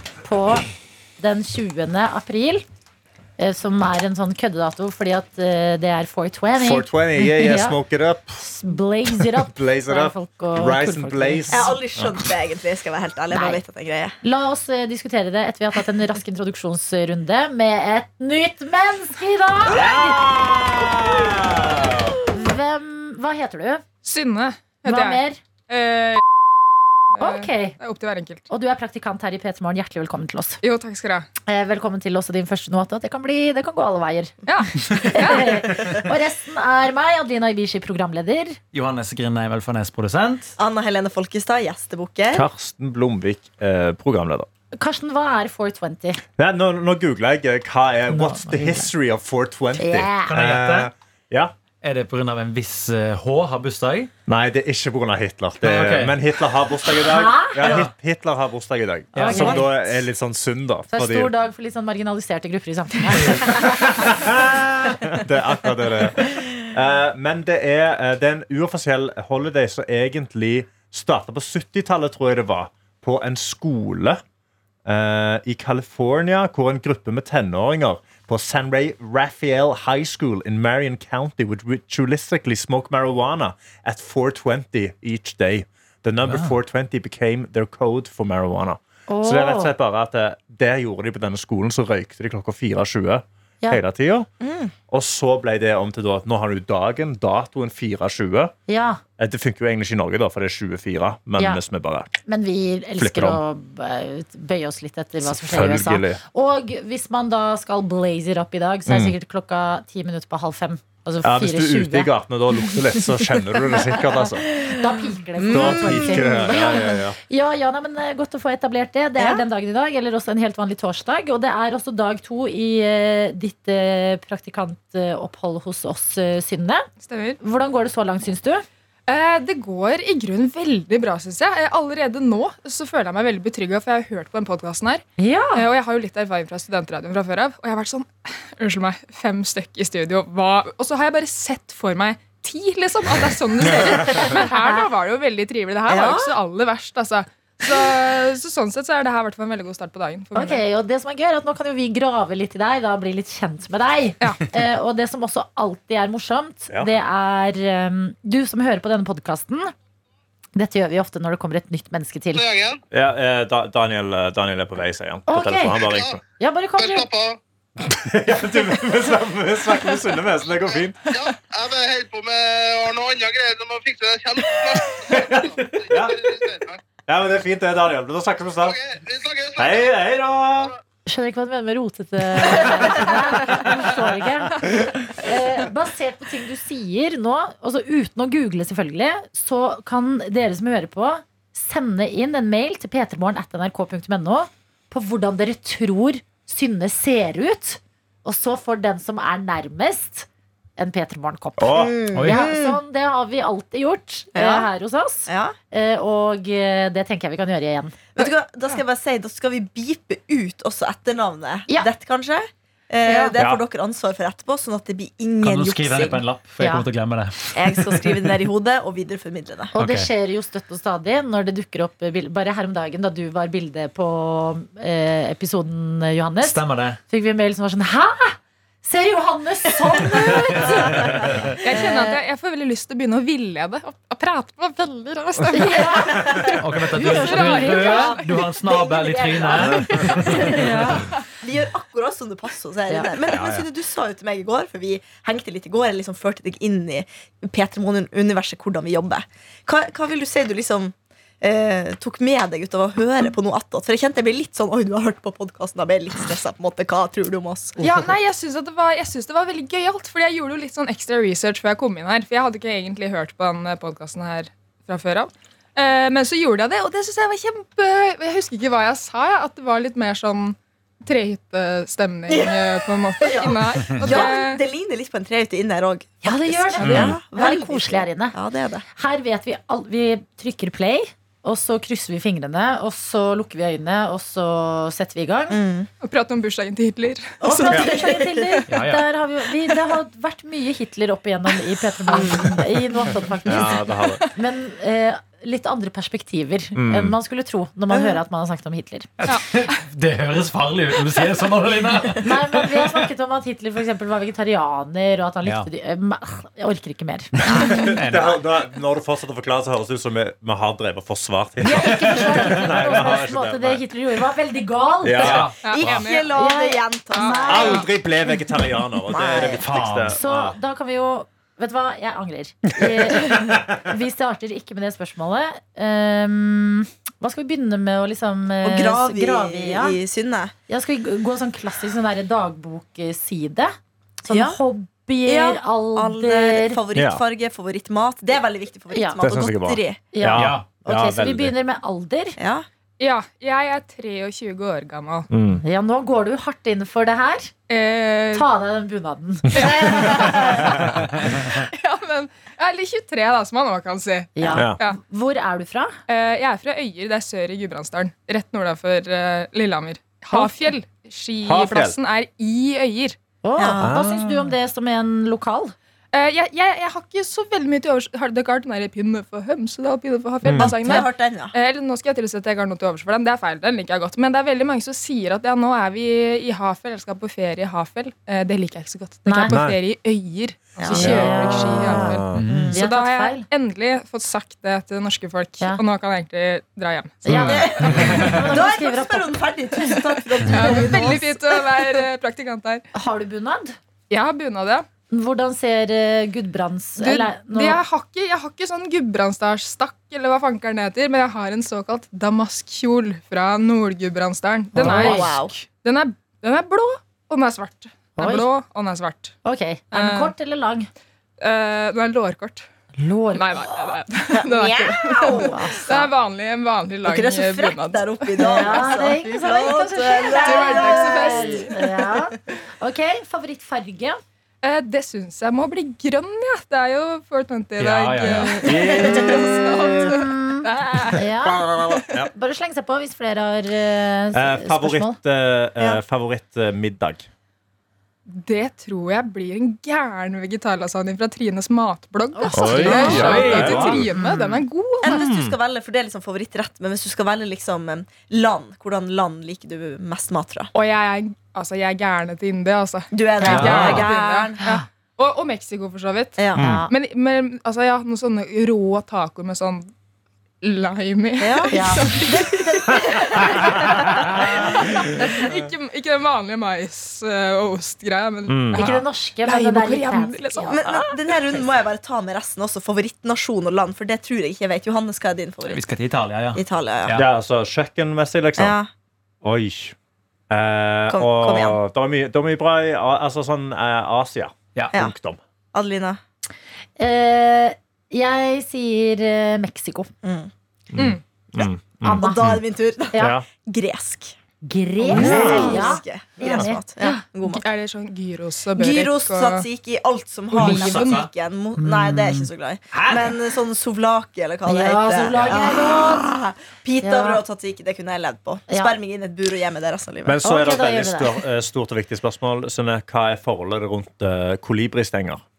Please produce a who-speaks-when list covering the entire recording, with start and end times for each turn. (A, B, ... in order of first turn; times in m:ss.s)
0:00.2-0:00.7 A
0:01.2-0:02.6 A
0:03.4-0:07.8 A
0:06.6-0:08.4 B
0:08.4-0:11.8 A
0:09.4-0:12.2 B
0:11.5-0:14.2 C
0:13.3-0:13.6 A
0:14.2-0:20.2 A
0:19.7-0:22.2 B
0:22.3-0:23.8 A
0:24.0-0:26.2 D
0:24.8-0:25.4 A
0:27.1-0:28.5 D
0:27.2-0:27.7 A
0:28.5-0:30.6 A
0:30.6-0:31.3 D
0:31.4-0:34.3 A
0:34.4-0:35.8 D
0:35.1-0:38.6 A
0:38.7-0:40.6 E
0:40.6-0:42.5 C
0:42.3-0:44.5 B
0:44.8-0:46.2 A
0:46.4-0:51.5 B
0:48.1-0:48.9 A
0:49.8-0:50.3 A
0:50.2-0:50.9 E
0:51.8-0:54.1 E
0:54.3-1:01.3 B
0:55.6-0:56.2 E
0:57.0-0:57.8 A
0:57.6-0:57.9 E
0:59.2-0:59.6 E
0:59.2-0:59.6 A
0:59.2-0:59.9 C
1:00.9-1:03.9 A
1:03.4-1:14.2 B
1:14.9-1:34.3 B
1:26.2-1:26.6 E
1:29.1-1:29.7 A
1:34.4-1:34.7 C
1:34.9-1:38.5 B
1:38.7-1:39.0 A
1:39.2-1:42.1 B
1:42.2-1:52.1 A
1:43.0-1:43.4 B
1:45.2-1:46.2 B
1:48.9-1:49.2 B
1:51.2-1:54.5 B
1:54.6-2:06.9 A
1:55.5-1:57.0 C
1:55.5-1:57.2 B
1:59.2-1:59.4 C
2:07.0-2:07.4 D
2:07.4-2:08.6 A
2:09.1-2:30.6 D
2:15.2-2:15.7 A
2:24.2-2:24.9 A
2:25.9-2:26.3 C
2:30.3-2:39.7 A
2:40.6-2:42.4 A
2:42.3-2:42.8 F
2:42.9-2:46.2 B
2:45.3-2:45.8 A
2:45.8-2:46.2 F
2:46.4-2:47.1 A
2:46.8-2:47.4 F
2:47.8-2:51.1 B
2:51.1-2:56.8 F
2:55.0-2:56.3 B
2:57.0-2:58.8 B
2:58.6-2:59.9 F
2:59.6-3:00.7 B
3:01.1-3:20.3 A
3:20.8-3:28.1 A
3:21.6-3:21.9 B
3:21.7-3:22.8 C
3:22.1-3:22.4 E
3:24.3-3:24.7 C
3:25.3-3:25.6 C
3:28.2-3:36.2 C
3:33.3-3:33.6 B
3:35.4-3:38.3 E
3:36.6-3:36.9 A
3:37.6-3:39.7 C
3:39.8-3:40.1 E
3:39.8-3:52.2 A
3:46.4-3:47.0 E
3:50.8-3:51.5 E
3:51.6-4:00.6 D
3:55.5-3:56.4 A
3:56.6-4:00.9 E
3:56.9-3:58.2 A
3:59.1-4:00.9 C
4:00.5-4:01.0 A
4:01.4-4:17.8 C
4:17.8-4:34.6 D
4:32.3-4:38.8 C
4:33.8-4:34.2 E
4:36.2-4:38.3 A
4:36.8-4:37.2 B
4:39.0-4:45.6 A
4:45.5-4:45.9 C
4:46.0-4:47.4 D
4:47.4-4:59.1 A
4:47.4-4:48.6 C
4:48.7-4:49.0 E
4:52.1-4:53.1 C
4:53.4-4:54.2 B
4:56.8-4:57.2 B
4:57.9-4:58.2 C
4:59.2-5:02.8 E
4:59.2-4:59.6 D
5:02.2-5:07.9 A
5:07.4-5:08.4 E
5:07.5-5:07.9 C
5:07.7-5:13.8 B
5:11.6-5:15.4 A
5:15.0-5:15.5 B
5:15.2-5:15.9 E
5:15.6-5:16.4 D
5:15.6-5:17.9 C
5:16.3-5:17.9 A
5:17.1-5:17.8 D
5:17.4-5:20.5 B
5:19.1-5:19.6 C
5:19.4-5:20.2 E
5:20.1-5:30.0 A
5:22.7-5:23.7 B
5:28.6-5:30.5 C
5:30.7-5:36.8 A
5:34.3-5:34.6 C
5:35.2-5:40.0 C
5:36.9-5:37.2 B
5:38.9-5:39.2 A
5:39.2-5:41.5 B
5:40.1-5:42.4 A
5:40.3-5:40.7 E
5:42.4-5:42.6 C
5:43.0-5:45.3 D
5:45.3-5:45.6 B
5:45.6-5:47.5 A
5:47.7-5:48.5 D
5:48.3-5:50.8 A
5:49.5-5:55.0 D
5:54.4-5:55.9 A
5:54.5-5:54.8 B
5:56.1-6:03.2 D
6:00.3-6:00.7 A
6:01.4-6:02.0 B
6:03.4-6:05.8 A
6:03.6-6:03.9 C
6:03.8-6:04.5 B
6:06.1-6:27.7 D
6:10.4-6:10.8 B
6:10.6-6:11.5 C
6:19.2-6:19.6 A
6:19.5-6:19.8 B
6:20.8-6:21.3 C
6:20.9-6:23.4 A
6:21.0-6:22.4 B
6:22.3-6:22.8 E
6:27.2-6:31.4 A
6:27.3-6:28.1 B
6:27.4-6:31.6 C
6:30.5-6:32.8 D
6:32.9-6:33.8 A
6:34.1-6:34.9 D
6:35.1-6:37.8 A
6:37.0-6:49.3 D
6:44.8-6:45.3 A
6:44.8-6:45.5 C
6:48.2-6:48.5 A
6:49.4-6:50.9 A
6:49.9-6:50.3 D
6:51.4-6:52.7 D
6:53.0-6:53.6 A
6:53.3-6:58.8 D
6:53.8-6:55.8 C
6:55.3-6:56.1 A
6:57.0-7:02.3 C
6:58.4-7:04.2 A
7:00.3-7:01.7 D
7:04.6-7:11.2 D
7:07.8-7:08.6 E
7:08.2-7:09.4 A
7:08.6-7:09.3 B
7:09.0-7:10.0 C
7:10.0-7:11.6 A
7:11.4-7:12.3 B
7:12.3-7:15.2 A
7:14.3-7:17.2 B
7:18.3-7:25.2 D
7:22.3-7:24.6 A
7:22.5-7:24.0 B
7:22.7-7:24.1 E
7:25.0-7:30.7 C
7:25.0-7:25.6 B
7:30.7-7:39.9 D
7:33.1-7:34.6 C
7:33.4-7:34.1 E
7:33.8-7:34.0 B
7:36.4-7:36.8 C
7:36.5-7:36.8 B
7:36.6-7:36.9 A
7:40.6-7:42.7 D
7:41.4-7:44.4 C
7:41.7-7:42.7 A
7:44.3-7:51.3 D
7:48.5-7:48.8 B
7:48.7-7:50.9 A
7:50.7-7:55.9 C
7:55.6-7:57.3 E
7:56.5-7:57.2 C
7:57.1-7:58.8 B
7:58.6-7:58.9 C
7:59.4-7:59.9 B
8:00.5-8:05.4 B
8:01.1-8:01.8 C
8:05.7-8:06.2 C
8:07.0-8:10.1 A
8:10.2-8:10.5 C
8:10.9-8:12.6 B
8:12.0-8:13.4 A
8:12.1-8:14.3 C
8:13.2-8:13.5 B
8:14.6-8:17.2 A
8:15.0-8:17.6 C
8:15.1-8:15.9 B
8:15.4-8:15.8 D
8:17.4-8:19.7 D
8:18.8-8:30.4 C
8:20.6-8:21.0 A
8:20.6-8:21.3 E
8:20.6-8:21.2 D
8:21.8-8:22.5 A
8:22.9-8:23.4 B
8:24.6-8:26.3 A
8:27.0-8:27.4 A
8:28.7-8:29.0 A
8:30.2-8:35.4 B
8:30.4-8:31.4 A